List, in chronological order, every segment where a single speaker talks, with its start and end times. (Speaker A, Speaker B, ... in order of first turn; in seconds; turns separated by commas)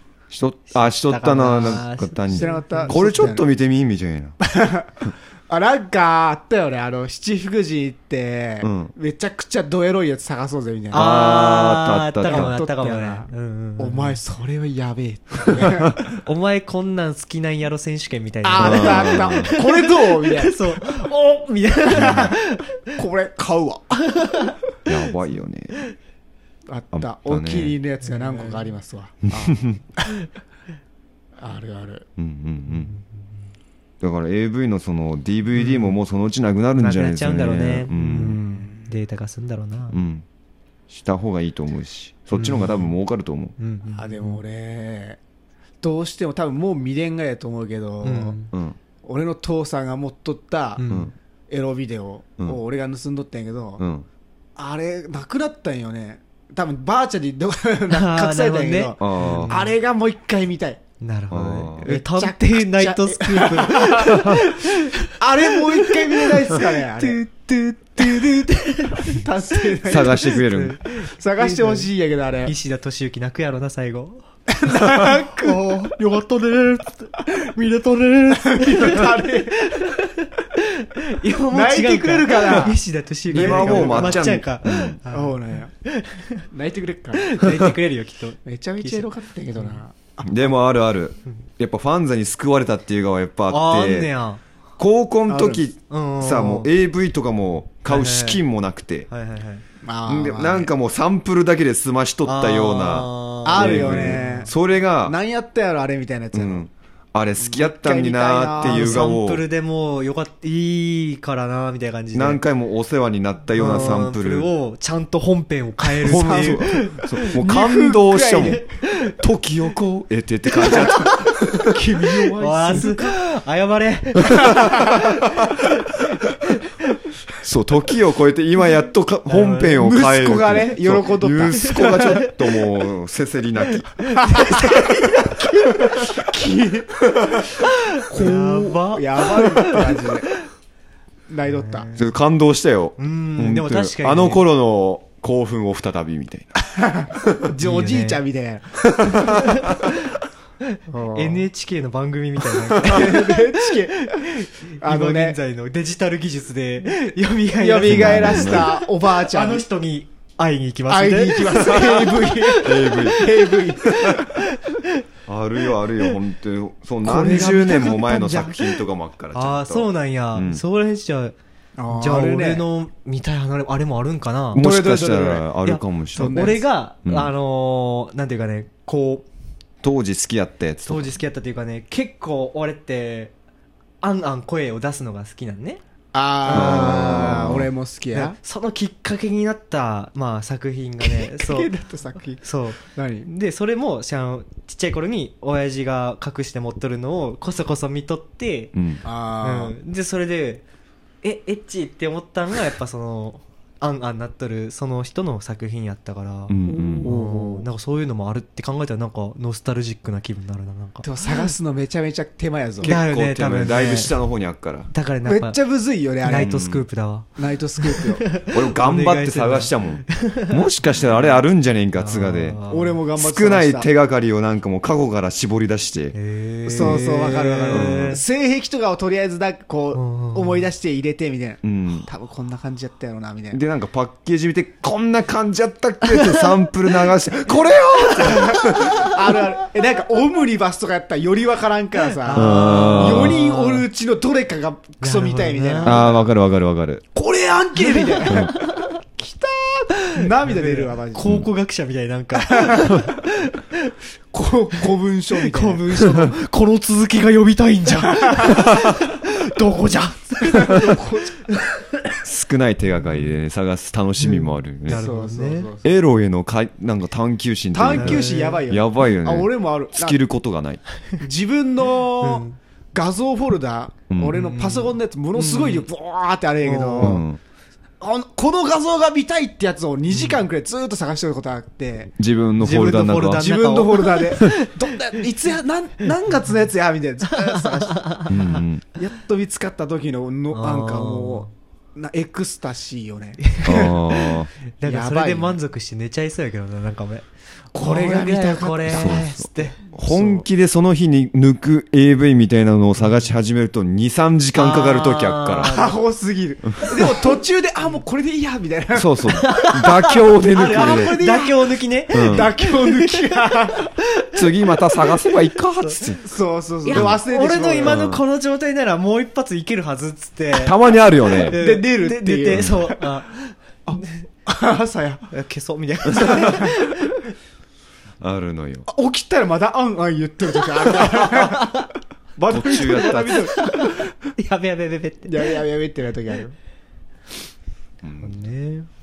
Speaker A: 0.3-4.3, Speaker B: 0.8-3.0, Speaker C: 2.3-3.4, Speaker C: 4.4-11.0, Speaker A: 8.6-8.9, Speaker A: 10.9-12.5, Speaker B: 10.9-14.2, Speaker C: 12.2-16.0, Speaker A: 15.5-15.9, Speaker B: 16.2-22.9, Speaker C: 18.4-20.8, Speaker A: 18.6-19.5, Speaker C: 21.9-22.3, Speaker A: 21.9-22.3, Speaker C: 22.9-24.3, Speaker B: 24.0-24.5, Speaker A: 24.9-25.8, Speaker C: 26.7-30.1, Speaker A: 26.9-27.8, Speaker B: 28.1-28.6, Speaker A: 29.3-29.8, Speaker C: 31.4-32.0, Speaker A: 32.2-32.9, Speaker B: 32.7-33.0, Speaker A: 34.0-38.4, Speaker B: 35.5-35.9, Speaker B: 36.8-40.0, Speaker C: 38.1-38.9, Speaker A: 39.9-40.2, Speaker A: 40.9-43.5, Speaker B: 42.3-42.9, Speaker B: 43.6-44.4, Speaker C: 44.0-45.2, Speaker C: 45.8-48.4, Speaker B: 48.0-48.5, Speaker A: 48.5-48.8, Speaker C: 49.0-50.9, Speaker B: 50.8-51.1, Speaker C: 51.5-53.8, Speaker A: 53.8-54.1, Speaker C: 54.6-60.8, Speaker B: 57.9-59.7, Speaker A: 59.0-59.5, Speaker B: 61.0-71.9, Speaker A: 61.3-61.9, Speaker C: 61.9-67.2, Speaker A: 64.1-64.4, Speaker C: 68.0-68.3, Speaker C: 69.0-70.4, Speaker A: 69.8-70.8, Speaker C: 71.0-72.5, Speaker B: 72.4-86.4, Speaker C: 74.5-75.9, Speaker C: 78.3-79.8, Speaker C: 81.5-84.2, Speaker A: 83.3-85.0, Speaker C: 85.1-85.7, Speaker C: 86.5-87.4, Speaker B: 87.1-89.8, Speaker C: 88.4-90.5, Speaker A: 90.2-94.1, Speaker B: 93.5-94.4, Speaker A: 94.8-99.1, Speaker C: 95.3-95.6, Speaker B: 95.9-96.7, Speaker B: 97.8-98.4, Speaker B: 99.1-99.6, Speaker C: 99.8-100.7, Speaker A: 100.0-105.2, Speaker B: 102.2-104.5, Speaker C: 103.4-106.7, Speaker A: 106.3-109.4, Speaker C: 107.4-109.2, Speaker B: 108.6-112.4, Speaker A: 112.1-114.5, Speaker B: 113.5-117.4, Speaker A: 116.0-118.6, Speaker C: 116.1-118.6, Speaker B: 118.4-119.2, Speaker A: 119.2-121.8, Speaker B: 120.5-127.0, Speaker C: 121.6-123.1, Speaker A: 124.3-124.6, Speaker C: 124.5-125.0, Speaker A: 127.4-134.0, Speaker B: 129.3-129.8, Speaker C: 129.7-132.3, Speaker B: 131.5-132.3, Speaker B: 134.0-136.2, Speaker C: 134.2-137.1, Speaker B: 137.5-140.4, Speaker C: 138.1-140.3, Speaker C: 141.3-141.9, Speaker B: 141.5-142.1, Speaker A: 141.9-146.5, Speaker B: 143.0-144.4, Speaker C: 146.6-149.3, Speaker A: 147.2-147.4, Speaker B: 147.6-148.2, Speaker A: 148.9-149.7, Speaker B: 149.2-150.2, Speaker B: 150.7-165.0, Speaker C: 150.9-151.4, Speaker C: 152.8-155.4, Speaker C: 157.6-159.6, Speaker A: 157.8-158.7, Speaker C: 160.9-164.4, Speaker A: 162.5-164.2, Speaker A: 165.2-170.6, Speaker B: 167.0-168.4, Speaker C: 167.0-168.7, Speaker B: 169.3-171.3, Speaker C: 171.8-172.6, Speaker B: 171.9-174.6, Speaker A: 174.5-177.3, Speaker C: 174.6-175.5, Speaker B: 175.6-179.2, Speaker C: 176.1-176.7, Speaker A: 179.8-181.1, Speaker B: 180.8-183.3, Speaker B: 184.0-185.8, Speaker C: 186.1-188.4, Speaker B: 186.4-187.5, Speaker A: 186.5-187.7, Speaker B: 188.1-191.7, Speaker C: 191.0-193.3, Speaker B: 192.4-198.8, Speaker A: 198.7-199.0, Speaker C: 199.0-199.8, Speaker B: 199.4-200.6, Speaker B: 201.2-211.5, Speaker A: 206.5-207.1, Speaker C: 206.9-207.7, Speaker C: 211.0-212.9, Speaker A: 212.8-214.9, Speaker B: 212.8-214.2, Speaker B: 214.9-215.6, Speaker C: 215.2-216.5, Speaker B: 216.2-221.4, Speaker A: 216.3-216.8, Speaker C: 217.4-218.3, Speaker A: 218.5-222.6, Speaker B: 221.9-222.9, Speaker C: 222.7-223.9, Speaker A: 223.2-226.1, Speaker B: 226.1-228.2, Speaker C: 226.7-233.6, Speaker A: 227.7-228.2, Speaker B: 229.9-230.7, Speaker A: 231.6-232.1, Speaker A: 233.5-239.1, Speaker B: 236.1-236.6, Speaker C: 238.2-246.2, Speaker B: 242.2-243.8, Speaker A: 242.3-243.4, Speaker B: 245.0-246.1, Speaker A: 245.8-247.0, Speaker C: 247.1-251.4, Speaker B: 247.8-248.9, Speaker B: 249.9-253.9, Speaker C: 252.3-253.0, Speaker C: 254.3-256.0, Speaker B: 255.4-262.1, Speaker C: 258.0-258.6, Speaker C: 260.4-261.4, Speaker A: 262.2-265.0, Speaker B: 264.2-265.7, Speaker C: 264.9-265.9, Speaker A: 265.8-270.8, Speaker C: 267.7-270.2, Speaker B: 267.9-268.6, Speaker C: 271.2-277.2, Speaker B: 272.2-272.6, Speaker A: 274.1-274.4, Speaker B: 274.3-275.9, Speaker B: 276.6-277.2, Speaker A: 277.0-277.4, Speaker C: 278.0-282.1, Speaker B: 280.1-280.4, Speaker A: 282.2-283.5, Speaker B: 282.6-284.7, Speaker C: 283.4-288.3, Speaker B: 287.4-288.6, Speaker A: 288.3-288.8, Speaker C: 288.9-295.6, Speaker B: 290.5-291.5, Speaker B: 293.5-293.9, Speaker A: 293.6-294.5, Speaker B: 294.8-299.8, Speaker C: 297.7-299.2, Speaker A: 298.9-305.7, Speaker C: 299.9-300.4, Speaker B: 304.5-306.0, Speaker C: 305.7-309.6, Speaker A: 308.9-311.1, Speaker B: 309.3-314.4, Speaker C: 310.5-313.9, Speaker A: 312.1-312.5, Speaker A: 314.3-316.2, Speaker B: 315.2-316.0, Speaker C: 316.2-318.1, Speaker B: 316.8-324.2, Speaker A: 316.9-317.2, Speaker A: 317.8-318.2, Speaker A: 320.6-321.6, Speaker C: 321.5-323.0, Speaker C: 323.9-325.3, Speaker B: 325.3-327.3, Speaker C: 326.1-326.7, Speaker A: 328.2-328.9, Speaker C: 328.9-334.1, Speaker B: 331.4-331.9, Speaker A: 332.5-333.5, Speaker B: 332.6-335.6, Speaker C: 335.3-336.5, Speaker A: 338.0-338.3, Speaker B: 338.2-338.9